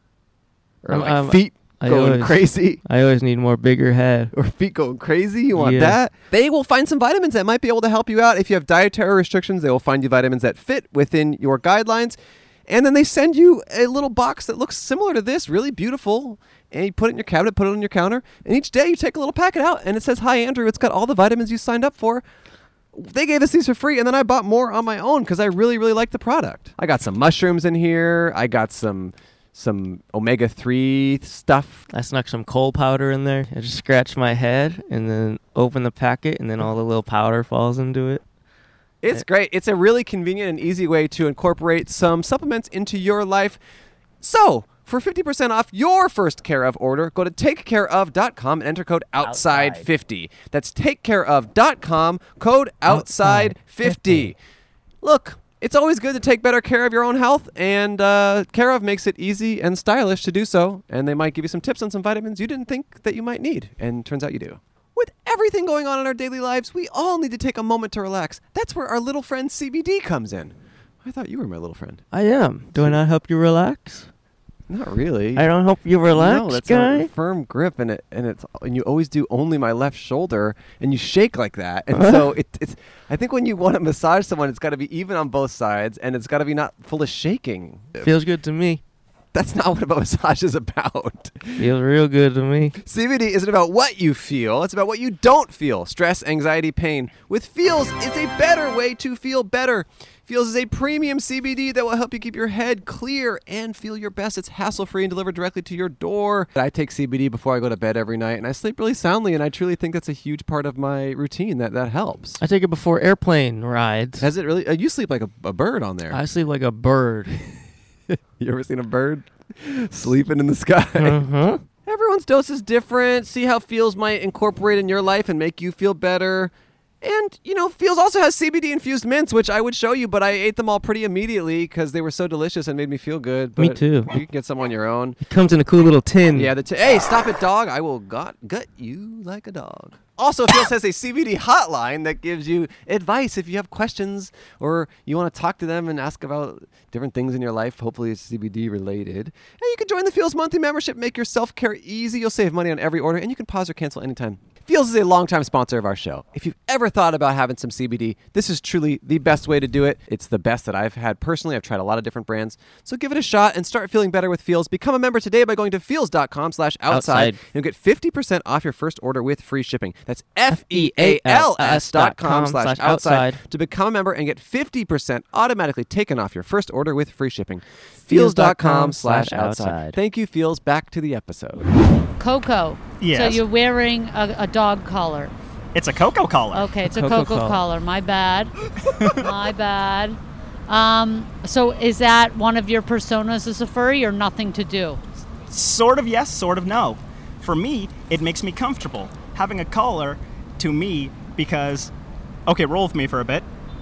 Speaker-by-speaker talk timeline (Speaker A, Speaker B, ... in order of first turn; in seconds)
Speaker A: 0.8-2.8, 4.3-22.2, 22.9-31.9, 39.0-43.6, 44.2-54.4, 55.0-72.0, 74.7-75.5, 76.1-88.1, 89.3-91.7, 92.8-112.4, 114.2-116.2, 118.1-121.2, 121.9-135.2, 136.3-181.7
Speaker B: 0.9-4.3, 5.5-6.0, 31.9-38.2, 49.2-49.9, 52.9-54.3, 72.1-74.1, 75.4-77.1, 81.9-82.3, 88.0-88.8, 91.6-92.8, 112.4-114.3, 116.1-117.4, 121.0-121.6, 133.6-134.2, 135.3-136.5, 166.9-167.4, 170.5-173.4, 178.1-180.0, 186.9-187.6
Speaker C: 182.2-185.3, 186.5-188.5, 189.1-195.0
Speaker D: 183.0-183.4, 185.7-186.7, 188.9-189.2, 195.5-201.9, 202.5-203.5